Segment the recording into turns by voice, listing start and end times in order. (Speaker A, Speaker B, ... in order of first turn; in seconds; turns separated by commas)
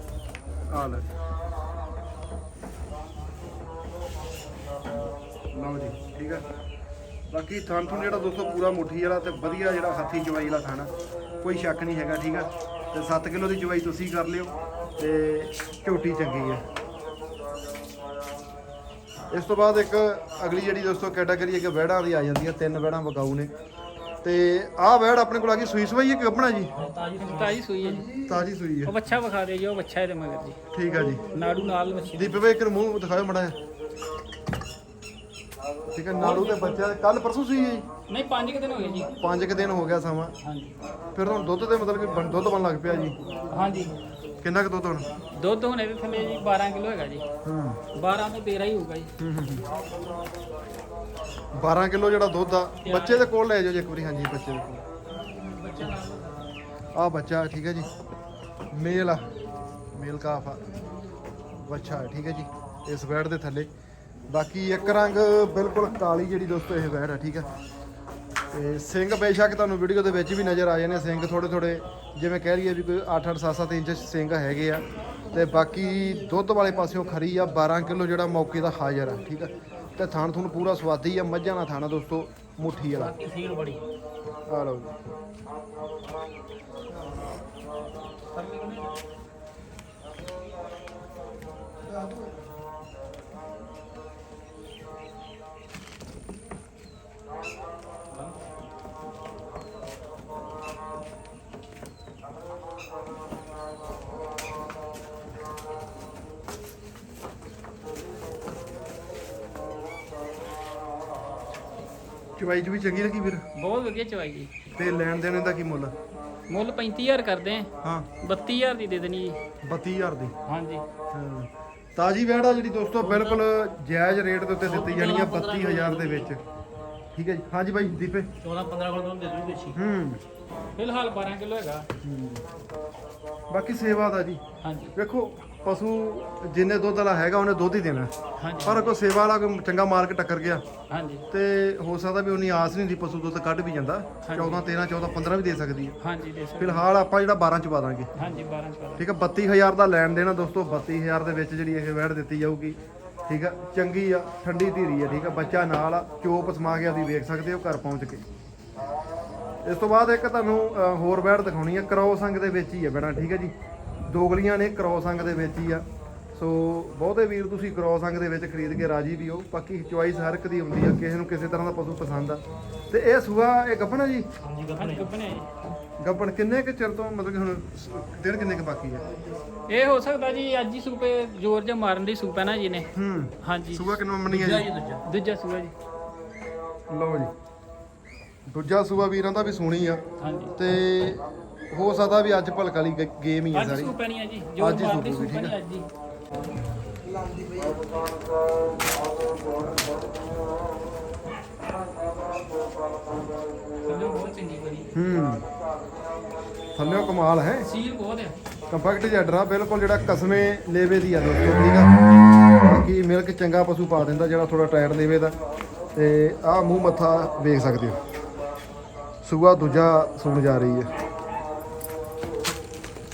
Speaker A: 0.7-1.1, Speaker A: 5.5-6.4, Speaker A: 7.3-10.9, Speaker A: 11.4-16.6, Speaker A: 19.3-23.5, Speaker A: 24.2-26.7, Speaker B: 26.7-27.8, Speaker C: 27.2-30.6, Speaker A: 28.2-29.0, Speaker A: 30.7-31.2, Speaker C: 31.3-32.4, Speaker A: 32.1-33.6, Speaker A: 35.9-37.9, Speaker C: 36.2-36.9, Speaker C: 38.1-39.1, Speaker A: 39.2-40.3, Speaker C: 40.4-40.8, Speaker A: 41.1-43.2, Speaker C: 43.5-44.0, Speaker A: 44.4-45.1, Speaker C: 45.3-47.2, Speaker A: 47.4-47.8, Speaker C: 47.9-49.1, Speaker A: 49.2-49.6, Speaker A: 51.5-54.8, Speaker C: 52.8-53.3, Speaker C: 55.3-56.5, Speaker A: 56.9-57.9, Speaker A: 58.7-59.3, Speaker A: 59.9-60.7, Speaker A: 61.6-63.7, Speaker A: 64.3-67.5, Speaker A: 68.5-83.1, Speaker B: 82.9-83.8, Speaker A: 84.5-85.0, Speaker C: 88.3-88.9, Speaker A: 112.4-113.4, Speaker C: 113.5-114.5, Speaker A: 114.7-115.9, Speaker C: 116.5-119.4, Speaker A: 117.8-118.1, Speaker A: 119.6-120.3, Speaker C: 120.5-120.8, Speaker A: 121.1-126.4, Speaker B: 123.0-123.4, Speaker B: 124.6-126.3, Speaker A: 127.1-128.3, Speaker B: 128.4-129.8, Speaker A: 129.7-130.2, Speaker C: 130.8-131.9, Speaker A: 132.0-132.4, Speaker A: 133.5-134.4, Speaker C: 134.6-134.9, Speaker A: 134.9-138.1, Speaker C: 138.4-138.9, Speaker A: 138.6-140.6, Speaker C: 140.9-141.2, Speaker A: 141.3-145.9, Speaker C: 144.2-144.6, Speaker C: 146.0-146.8, Speaker A: 146.6-148.1, Speaker C: 148.1-149.0, Speaker A: 149.0-158.2, Speaker C: 155.1-155.6, Speaker A: 159.6-163.5, Speaker A: 164.1-174.3, Speaker B: 174.4-175.1, Speaker C: 174.8-175.5, Speaker A: 176.0-179.0, Speaker C: 179.7-182.9, Speaker A: 182.9-184.7, Speaker C: 183.4-184.0, Speaker B: 184.3-185.0, Speaker C: 185.0-185.7, Speaker A: 186.9-187.3, Speaker A: 188.5-190.0, Speaker C: 190.2-190.5, Speaker A: 190.6-193.9, Speaker C: 193.5-195.8, Speaker A: 194.6-195.5, Speaker C: 203.8-204.9, Speaker A: 204.9-205.4, Speaker A: 206.7-207.7, Speaker C: 207.6-208.3, Speaker A: 208.7-215.4, Speaker A: 215.9-218.0, Speaker A: 219.2-220.9